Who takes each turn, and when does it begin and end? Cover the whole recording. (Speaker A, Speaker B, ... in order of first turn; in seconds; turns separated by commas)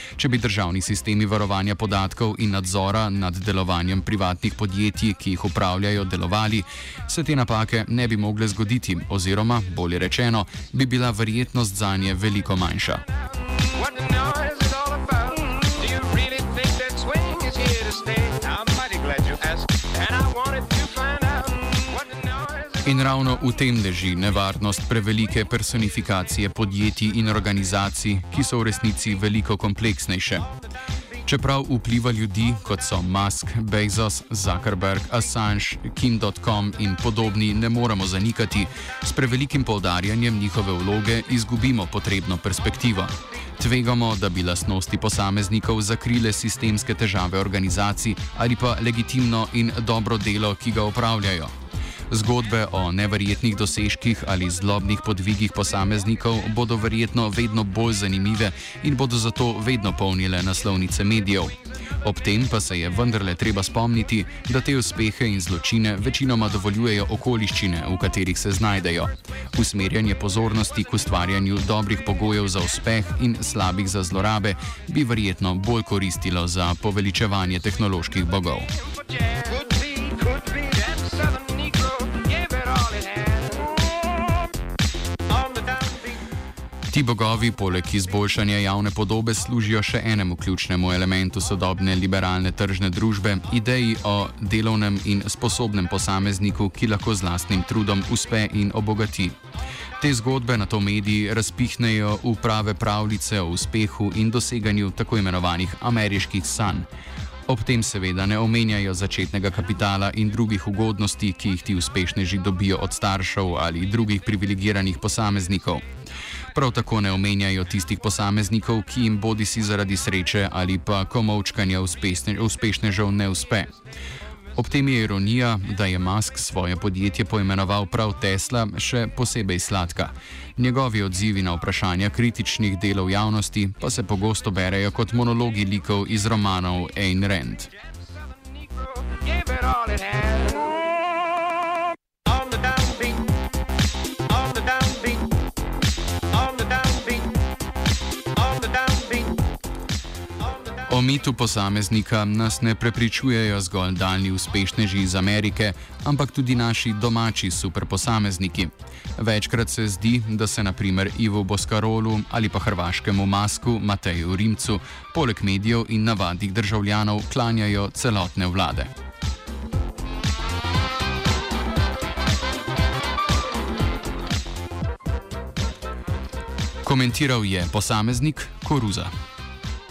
Speaker A: 0.2-13.0, Speaker B: 13.7-22.6, Speaker A: 22.8-30.5, Speaker A: 31.2-51.5, Speaker A: 52.1-78.7, Speaker B: 79.2-83.8, Speaker A: 86.9-99.4, Speaker A: 100.0-106.9, Speaker A: 107.5-115.8, Speaker A: 116.5-123.7, Speaker A: 124.5-137.7, Speaker B: 138.8-140.9, Speaker A: 150.9-168.9, Speaker A: 176.8-179.1